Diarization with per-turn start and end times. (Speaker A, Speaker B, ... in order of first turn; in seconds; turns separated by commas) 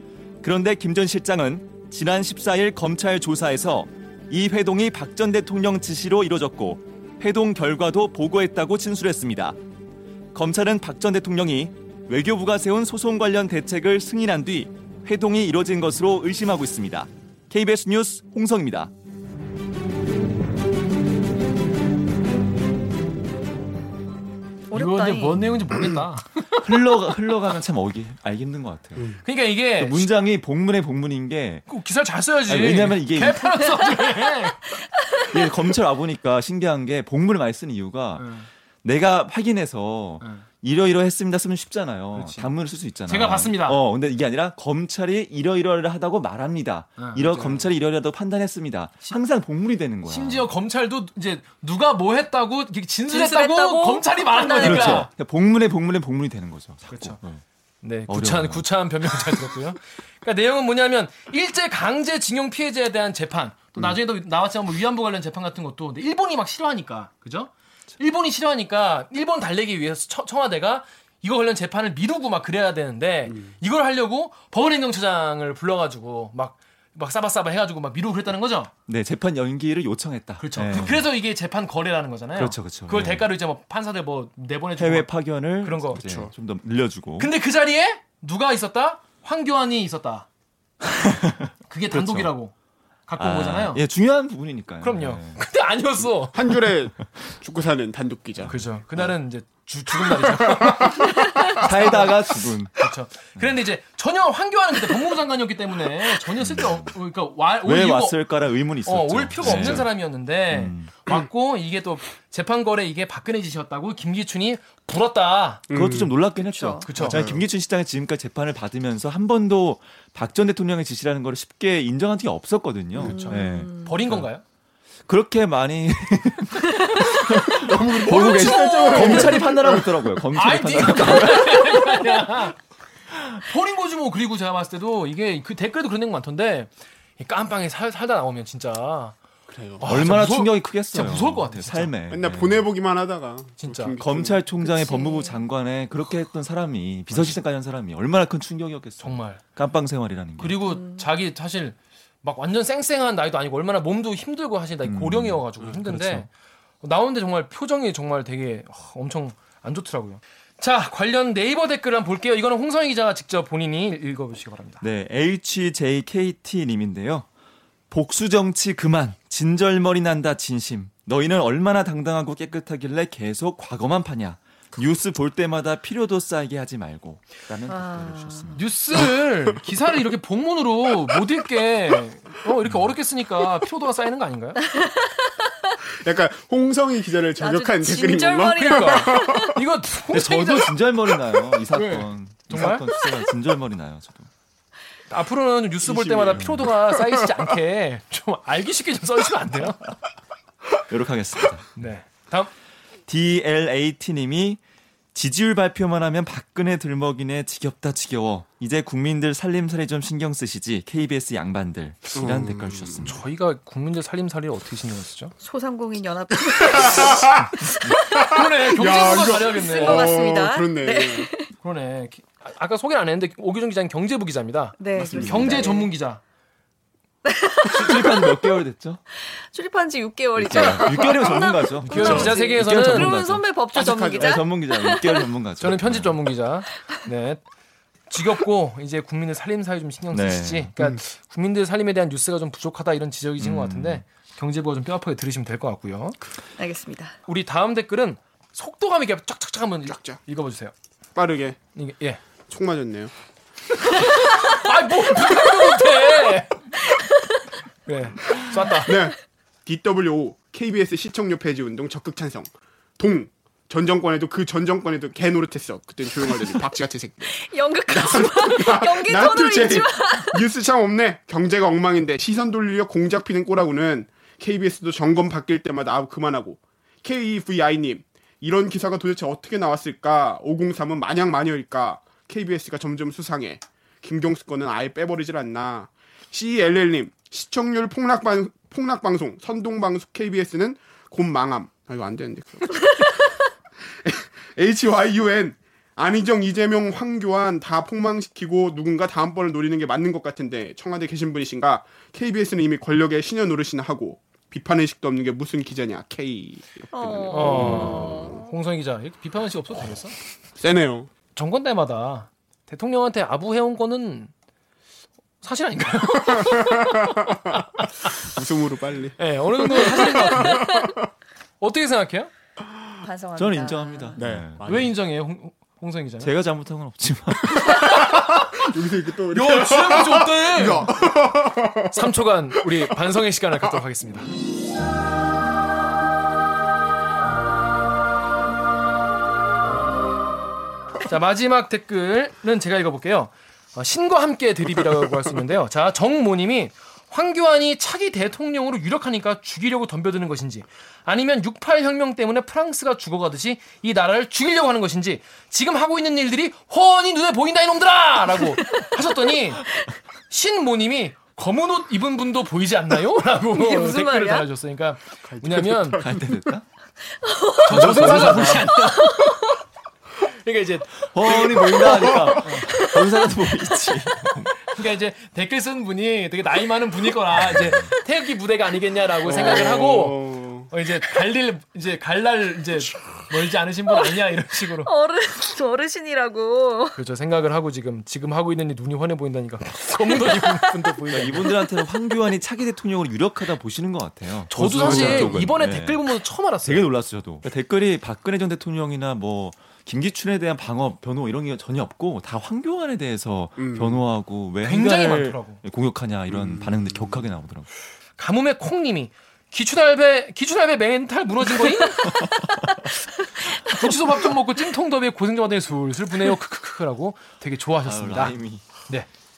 Speaker A: 0.4-9.6, Speaker A: 10.3-18.9, Speaker B: 24.7-25.4, Speaker C: 24.7-26.8, Speaker A: 26.5-29.2, Speaker C: 29.2-30.1, Speaker A: 29.8-31.6, Speaker C: 31.7-34.7, Speaker A: 32.5-33.5, Speaker A: 35.2-38.3, Speaker C: 38.2-38.5, Speaker A: 38.8-50.5, Speaker C: 42.1-42.5, Speaker C: 43.1-43.8, Speaker C: 47.0-47.7, Speaker C: 50.1-55.1, Speaker B: 53.1-55.1, Speaker A: 54.6-57.4, Speaker C: 56.9-57.2, Speaker C: 57.8-78.7, Speaker A: 58.1-59.4, Speaker A: 78.9-81.1, Speaker C: 80.4-85.1, Speaker A: 82.3-83.3, Speaker A: 84.8-87.3, Speaker C: 85.6-86.0, Speaker D: 86.0-86.3, Speaker C: 87.2-90.3, Speaker A: 90.8-92.3, Speaker C: 91.7-92.5, Speaker C: 93.1-93.8, Speaker A: 93.2-95.4, Speaker C: 94.8-96.5, Speaker D: 96.3-98.7, Speaker C: 98.5-102.2, Speaker D: 100.1-101.2, Speaker A: 101.4-102.8, Speaker C: 102.8-108.2, Speaker A: 106.4-107.0, Speaker A: 107.6-109.9, Speaker C: 108.8-115.6, Speaker A: 110.5-110.9, Speaker D: 115.7-116.2, Speaker A: 115.7-124.3, Speaker B: 116.4-116.9, Speaker C: 116.8-117.3, Speaker D: 117.0-117.4, Speaker B: 123.0-124.0, Speaker C: 123.0-124.4, Speaker A: 125.1-132.0, Speaker D: 127.4-130.0, Speaker C: 128.4-129.4, Speaker B: 128.4-128.9, Speaker C: 130.3-132.6, Speaker C: 133.3-139.2, Speaker D: 139.5-139.8, Speaker C: 139.8-141.9, Speaker A: 139.8-142.7, Speaker D: 142.1-144.4, Speaker C: 143.6-144.0, Speaker A: 144.0-150.6, Speaker B: 144.6-145.4, Speaker C: 149.0-149.4, Speaker C: 150.4-156.3, Speaker B: 150.7-151.1, Speaker A: 154.8-156.3, Speaker C: 156.8-164.8, Speaker A: 164.8-167.3, Speaker A: 167.9-178.7, Speaker B: 177.7-178.5, Speaker C: 178.5-184.6, Speaker B: 184.6-185.7, Speaker D: 186.0-189.6, Speaker B: 187.4-189.6, Speaker C: 188.6-190.8, Speaker A: 190.1-194.3, Speaker C: 191.7-192.9, Speaker C: 195.1-199.9, Speaker D: 195.8-197.3, Speaker A: 196.3-196.7, Speaker A: 200.9-201.7, Speaker C: 201.8-202.5, Speaker A: 203.1-204.6, Speaker A: 205.1-213.2, Speaker D: 212.2-213.2, Speaker C: 213.0-215.3, Speaker B: 215.4-221.5, Speaker D: 216.6-217.5, Speaker D: 218.1-221.3, Speaker C: 218.1-220.2, Speaker C: 221.6-226.2, Speaker B: 224.8-225.9, Speaker D: 224.9-225.8, Speaker B: 227.2-228.4, Speaker A: 227.7-229.0, Speaker B: 229.4-235.3, Speaker A: 230.4-233.5, Speaker C: 231.9-233.1, Speaker D: 232.0-232.3, Speaker D: 233.8-234.4, Speaker A: 234.2-236.2, Speaker C: 235.6-237.4, Speaker C: 238.1-246.2, Speaker A: 240.1-240.7, Speaker A: 243.4-244.0, Speaker B: 246.6-247.2, Speaker C: 247.3-250.7, Speaker D: 249.9-250.2, Speaker D: 251.2-251.6, Speaker C: 251.8-252.2, Speaker D: 252.5-253.1, Speaker C: 253.9-256.7, Speaker C: 257.9-259.0, Speaker D: 258.9-293.4, Speaker B: 267.3-270.4, Speaker D: 294.0-308.2, Speaker B: 306.9-308.5, Speaker C: 307.3-310.2, Speaker D: 310.6-311.1, Speaker C: 311.4-314.3, Speaker C: 315.4-318.1, Speaker D: 316.3-321.1, Speaker C: 319.2-320.7, Speaker B: 319.9-320.9, Speaker C: 321.6-322.3, Speaker B: 323.0-324.2, Speaker A: 323.4-324.6, Speaker D: 324.2-324.9, Speaker C: 324.6-326.3, Speaker A: 326.2-327.6, Speaker D: 327.6-332.0, Speaker C: 327.9-328.4, Speaker C: 329.3-330.9, Speaker C: 331.9-334.3, Speaker C: 341.1-359.7, Speaker C: 360.3-366.1, Speaker B: 363.5-364.5, Speaker D: 365.2-366.4, Speaker A: 366.0-366.7, Speaker B: 367.2-369.6, Speaker C: 367.6-369.4, Speaker A: 367.7-369.0, Speaker C: 370.2-372.8, Speaker A: 371.1-374.6, Speaker D: 371.9-372.4, Speaker B: 372.7-373.2, Speaker C: 374.6-384.9, Speaker A: 377.4-377.9, Speaker D: 379.2-380.7, Speaker B: 384.8-387.0, Speaker C: 387.0-391.5, Speaker B: 390.1-390.9, Speaker A: 391.1-396.0, Speaker C: 394.5-396.9, Speaker D: 394.8-395.3, Speaker A: 396.6-407.7, Speaker D: 403.6-404.1, Speaker C: 404.6-405.6, Speaker D: 406.3-407.3, Speaker C: 408.2-412.2, Speaker C: 413.6-419.1, Speaker A: 417.8-418.6